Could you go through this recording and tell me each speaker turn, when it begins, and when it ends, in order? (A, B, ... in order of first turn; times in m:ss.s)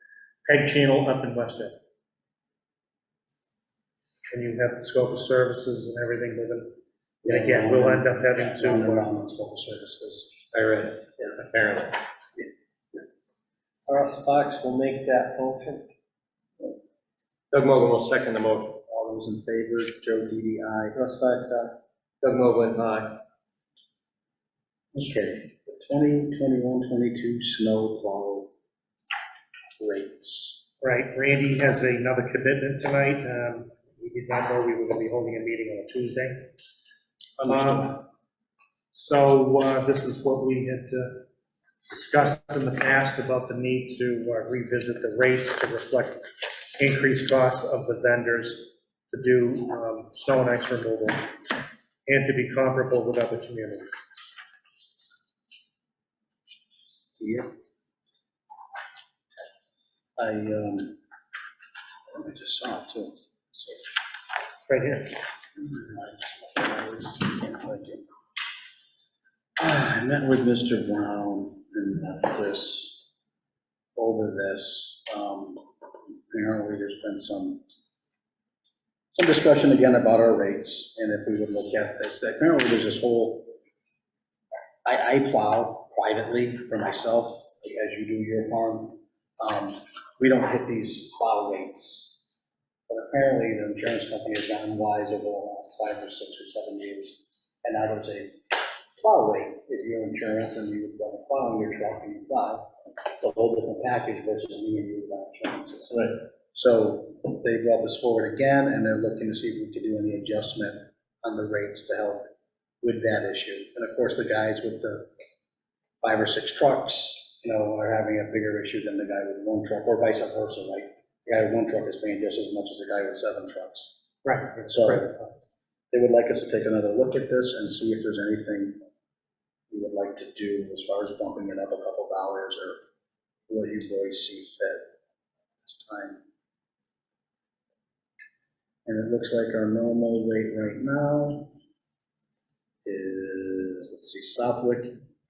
0:00.4-0:01.7 A
0:04.3-0:09.1 A
0:07.2-0:10.4 B
0:10.5-0:12.0 C
0:13.8-0:15.8 D
0:17.5-0:18.8 C
0:18.9-0:21.0 B
0:20.9-0:21.8 D
0:22.2-0:23.2 C
0:24.9-0:28.5 B
0:29.8-0:30.7 B
0:30.8-0:36.5 A
0:37.4-0:38.0 B
0:37.4-0:38.0 A
0:38.9-0:41.2 A
0:41.9-0:51.3 A
0:52.1-0:53.9 A
0:57.2-0:57.5 B
1:00.2-1:01.0 B
1:02.1-1:03.9 B
1:04.7-1:05.1 A
1:05.6-1:08.0 B
1:09.6-1:13.0 B
1:14.0-1:17.6 B
1:19.1-1:23.5 B
1:24.8-1:32.2 B
1:32.9-1:46.0 B
1:45.9-1:46.2 D
1:46.5-1:52.3 B
1:52.8-1:55.1 B
1:56.0-2:03.9 B
2:04.2-2:05.4 A
2:04.7-2:05.1 B
2:05.9-2:08.8 B
2:09.7-2:12.8 B
2:13.5-2:14.8 B
2:15.6-2:16.2 B
2:18.8-2:21.5 B
2:22.8-2:25.0 B